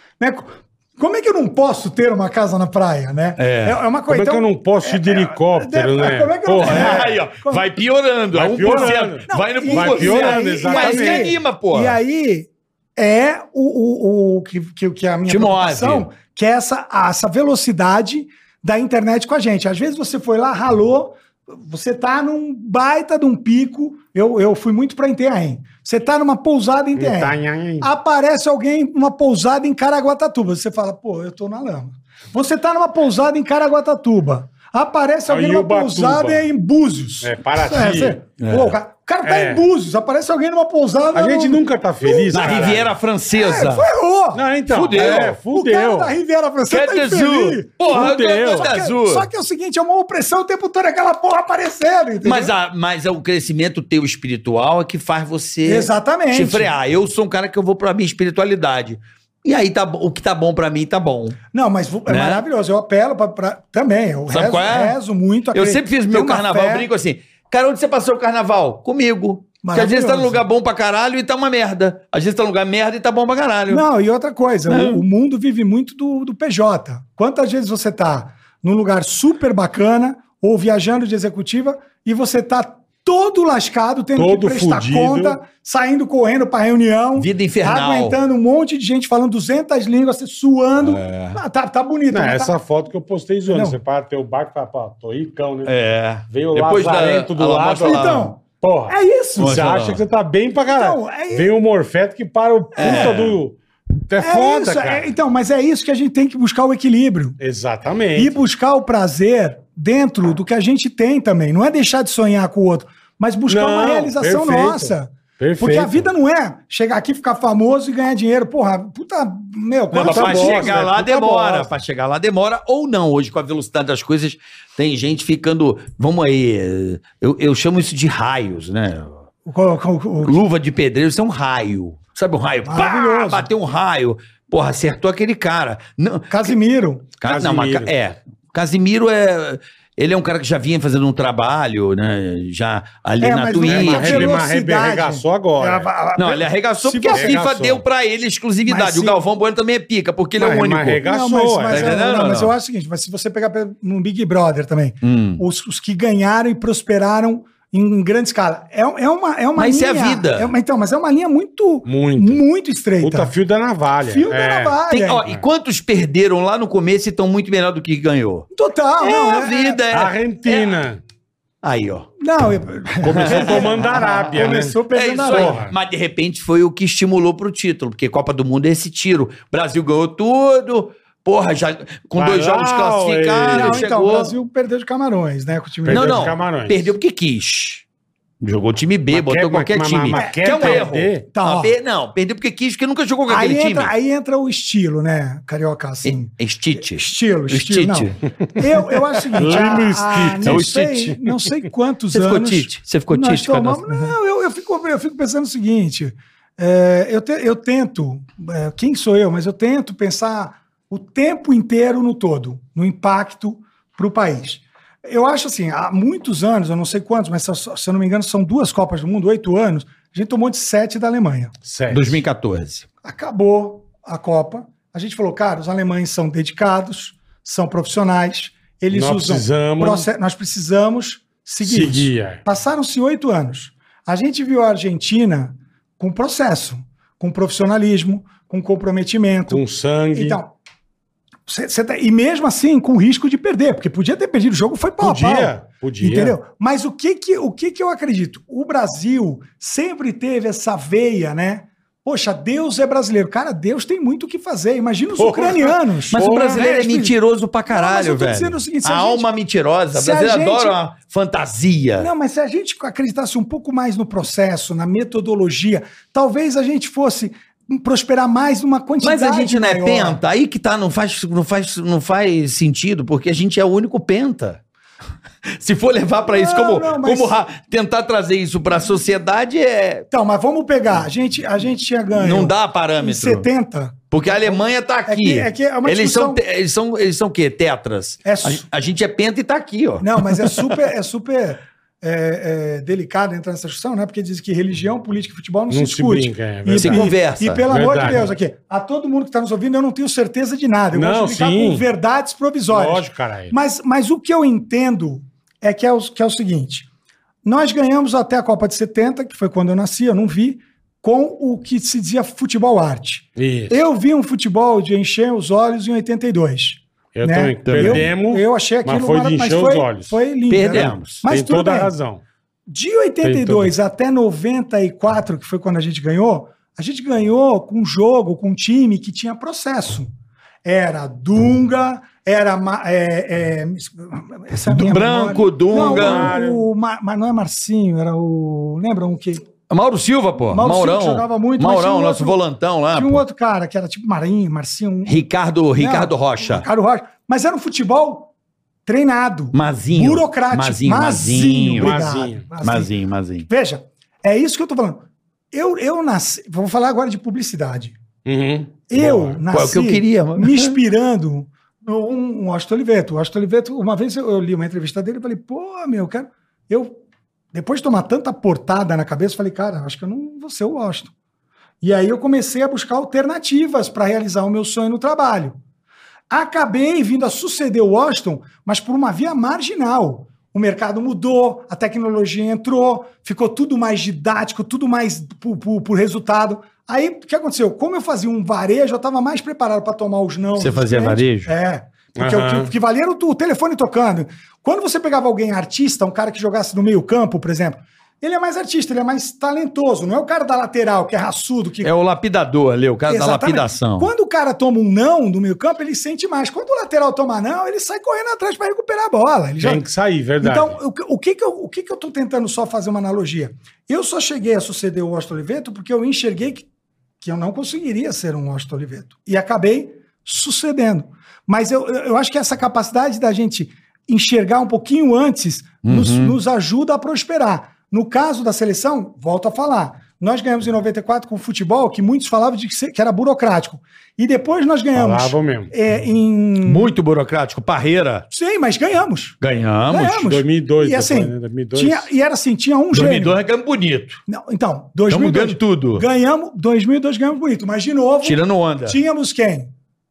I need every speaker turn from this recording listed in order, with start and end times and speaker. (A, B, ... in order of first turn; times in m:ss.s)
0:00.2-0:07.7 A
0:03.4-0:03.8 B
0:04.1-0:07.1 C
0:06.6-0:12.0 B
0:08.3-0:11.3 C
0:08.6-0:42.8 A
0:15.3-0:16.1 B
0:27.0-0:27.9 C
0:35.3-0:36.5 C
0:37.2-0:38.2 C
0:38.4-0:38.7 B
0:39.2-0:39.6 C
0:41.1-0:42.9 C
0:42.3-0:43.9 B
0:43.3-0:52.5 A
0:44.3-0:46.1 C
0:44.7-0:45.4 B
0:46.7-0:49.3 B
0:47.9-0:48.7 C
0:52.2-1:01.4 B
0:55.6-0:56.7 A
1:01.5-1:06.9 A
1:02.1-1:02.4 B
1:04.3-1:05.0 B
1:05.5-1:13.8 B
1:09.6-1:10.4 A
1:13.7-1:32.6 A
1:14.7-1:15.0 B
1:24.2-1:25.4 C
1:27.2-1:28.2 B
1:30.8-1:31.4 B
1:32.1-1:35.7 C
1:33.5-1:33.8 A
1:35.6-1:38.3 B
1:36.3-1:43.6 C
1:37.8-1:39.7 A
1:39.4-1:40.0 B
1:40.7-1:41.5 A
1:42.7-1:43.3 A
1:42.8-1:43.4 B
1:44.1-1:45.1 C
1:44.2-1:47.4 A
1:47.4-1:48.4 C
1:48.1-2:00.8 A
1:53.5-1:56.1 C
1:59.9-2:09.2 B
1:59.9-2:01.7 C
2:09.4-2:10.4 A
2:10.2-2:16.5 B
2:12.6-2:13.5 A
2:16.3-2:17.1 A
2:17.2-2:24.4 B
2:17.2-2:17.9 C
2:23.2-2:27.4 A
2:23.6-2:25.9 C
2:26.2-2:31.0 B
2:27.1-2:27.8 C
2:28.6-2:29.2 A
2:30.4-2:32.0 C
2:31.0-2:43.3 A
2:31.7-2:32.5 B
2:35.0-2:35.4 B
2:39.6-2:40.5 B
2:41.8-2:42.4 C
2:43.0-2:45.4 C
2:44.0-2:45.2 A
2:44.9-2:48.4 B
2:48.5-2:49.8 A
2:49.0-2:50.7 B
2:49.9-2:51.0 C
2:51.6-2:52.1 B
2:52.2-2:55.6 A
2:53.0-2:55.7 C
2:53.1-3:04.3 B
3:02.2-3:03.8 C
3:03.5-3:06.3 A
3:05.8-3:06.9 C
3:05.9-3:07.8 B
3:08.4-3:13.9 B
3:09.1-3:11.2 C
3:10.1-3:11.8 A
3:13.3-3:41.5 A
3:16.0-3:18.2 B
3:19.4-3:21.5 C
3:19.4-3:19.8 B
3:20.4-3:21.1 B
3:22.1-3:24.1 B
3:41.6-3:42.2 C
3:41.9-3:42.8 B
3:43.0-4:00.5 A
3:48.9-3:50.1 C
3:51.6-3:52.4 C
3:59.5-4:00.4 C
4:01.5-4:19.3 A
4:05.0-4:06.4 C
4:15.2-4:16.6 C
4:16.1-4:22.1 B
4:19.9-4:20.8 A
4:22.0-4:30.2 A
4:29.0-4:34.6 B
4:35.4-4:40.0 B
4:36.2-4:37.4 A
4:40.1-4:46.4 A
4:42.1-4:43.5 B
4:44.1-4:50.7 B
4:48.2-4:48.7 A
4:50.0-5:06.9 A
4:55.7-4:57.1 C
4:56.8-4:57.6 B
4:57.7-4:58.3 C
5:00.9-5:01.9 C
5:02.7-5:03.5 C
5:07.4-5:21.9 A
5:13.4-5:13.8 C
5:17.1-5:20.2 C
5:17.6-5:18.1 B
5:20.5-5:21.2 B
5:20.7-5:22.2 C
5:22.7-5:30.1 A
5:23.2-5:23.7 C
5:30.6-5:39.4 A
5:34.6-5:36.3 B
5:35.7-5:36.6 C
5:39.7-5:43.2 B
5:40.5-5:42.4 A
5:42.9-5:45.2 A
5:45.0-5:46.6 B
5:45.7-5:48.3 A
5:48.8-5:52.9 A
5:49.5-5:52.0 B
5:51.8-5:52.4 C
5:52.6-5:53.5 B
5:53.4-5:58.0 A
5:58.2-5:59.4 C
5:58.9-6:07.0 A
5:59.5-6:00.8 B
6:07.5-6:11.1 A
6:11.8-6:15.6 A
6:16.3-6:41.9 A
6:30.6-6:31.5 B
6:32.2-6:32.7 C
6:41.8-6:44.1 B
6:43.1-6:49.8 A
6:49.6-6:50.8 C
6:50.4-6:56.7 A
6:57.2-7:16.9 A
7:05.8-7:06.4 B
7:14.9-7:15.7 C
7:16.6-7:18.3 B
7:18.3-7:19.4 A
7:19.4-7:20.2 B
7:19.9-7:23.4 A
7:20.1-7:22.1 C
7:22.9-7:24.2 B
7:24.3-7:29.7 A
7:25.1-7:26.0 B
7:28.2-7:29.0 B